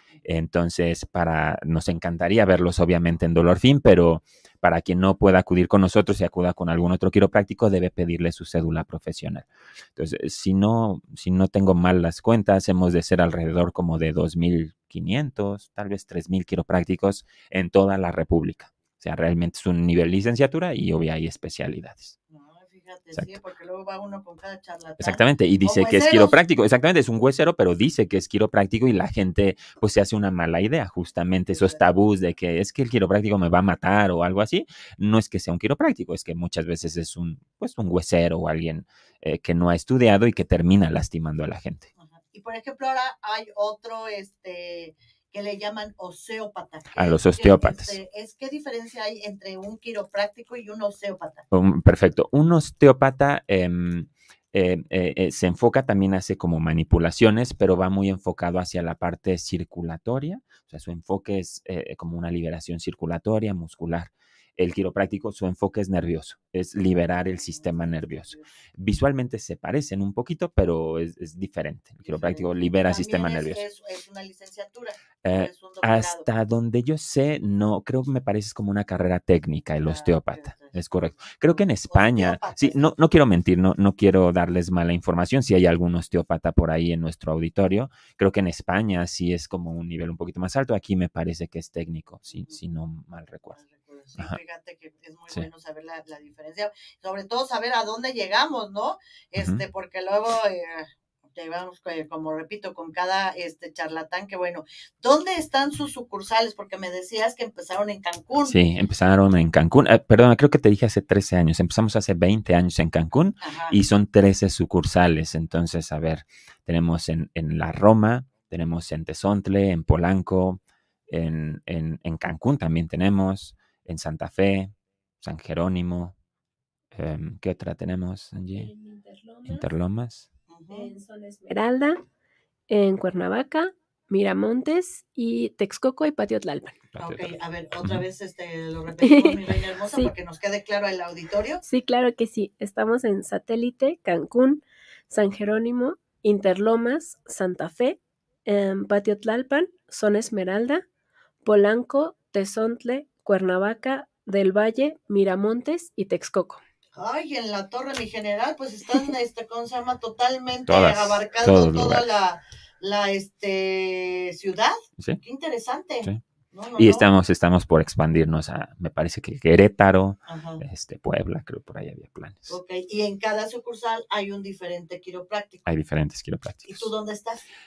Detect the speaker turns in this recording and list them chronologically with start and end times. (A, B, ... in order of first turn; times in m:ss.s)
0:00.2-0:22.2 A
0:22.3-0:26.4 B
0:25.0-0:41.9 A
0:31.5-0:32.0 B
0:42.0-0:51.4 B
0:47.0-0:48.0 A
0:51.5-1:13.6 A
1:07.4-1:08.6 B
1:12.0-1:16.3 B
1:15.2-1:33.6 A
1:19.8-1:20.8 B
1:21.5-1:22.9 B
1:32.3-1:32.6 B
1:33.6-1:48.6 B
1:48.4-2:06.2 A
1:53.4-1:53.8 B
2:06.9-2:08.7 A
2:08.5-2:09.7 C
2:09.4-2:10.3 A
2:10.5-2:10.9 B
2:10.7-2:12.0 C
2:12.7-2:16.8 C
2:16.9-2:18.0 A
2:17.0-2:21.6 B
2:19.0-2:19.4 C
2:21.6-2:30.9 C
2:31.4-2:36.6 C
2:37.0-2:47.1 B
2:40.7-2:42.1 A
2:46.8-2:52.6 A
2:50.3-2:50.6 B
2:52.5-2:55.7 B
2:55.7-2:56.9 A
2:56.7-2:57.4 B